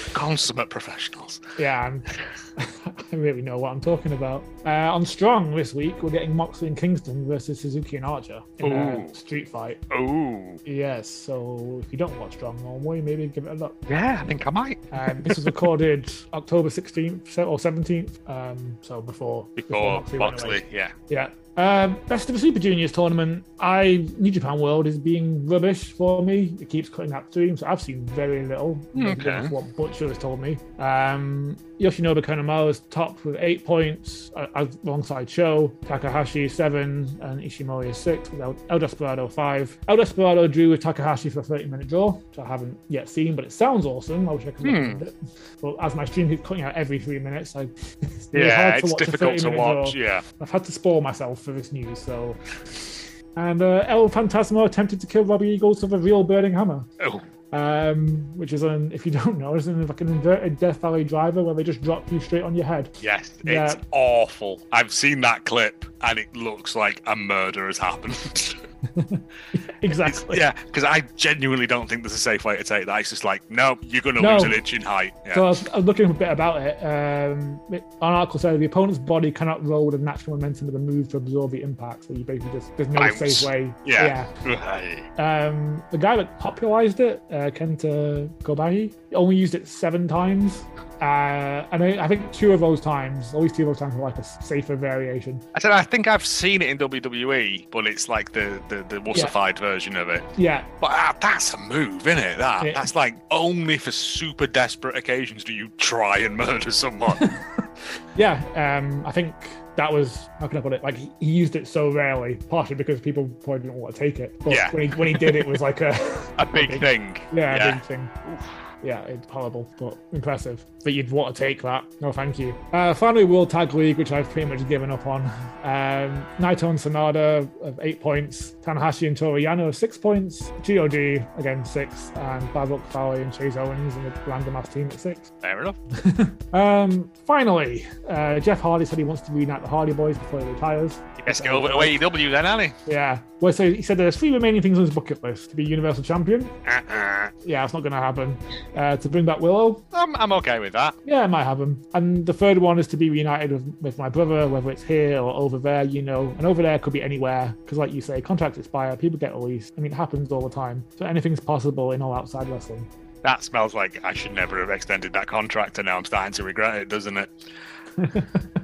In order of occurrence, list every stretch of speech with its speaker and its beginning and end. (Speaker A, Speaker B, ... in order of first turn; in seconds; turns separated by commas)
Speaker A: 0.1-1.4, Speaker B: 1.6-9.8, Speaker A: 8.6-9.2, Speaker A: 9.9-10.6, Speaker B: 10.7-13.8, Speaker A: 13.9-15.6, Speaker B: 14.9-56.9, Speaker A: 19.6-20.9, Speaker A: 28.9-29.5, Speaker A: 44.6-45.0, Speaker A: 48.3-50.2, Speaker A: 57.0-57.2, Speaker B: 57.5-62.9, Speaker A: 63.0-68.6, Speaker B: 63.5-63.8, Speaker B: 69.0-70.4, Speaker A: 70.0-75.5, Speaker B: 74.2-74.6, Speaker B: 75.3-84.3, Speaker A: 83.0-85.1, Speaker B: 85.2-95.4, Speaker A: 95.5-100.3, Speaker B: 100.4-100.7, Speaker A: 100.8-107.3, Speaker B: 102.6-102.9, Speaker B: 108.2-118.1, Speaker A: 114.5-115.6, Speaker A: 116.4-118.6, Speaker B: 118.8-135.3, Speaker A: 135.4-135.8, Speaker B: 135.9-142.0, Speaker A: 141.2-142.8, Speaker B: 142.9-146.5, Speaker A: 146.7-147.3, Speaker B: 147.4-149.8, Speaker A: 149.9-151.0, Speaker B: 151.1-162.9, Speaker A: 163.2-167.3, Speaker B: 168.0-168.4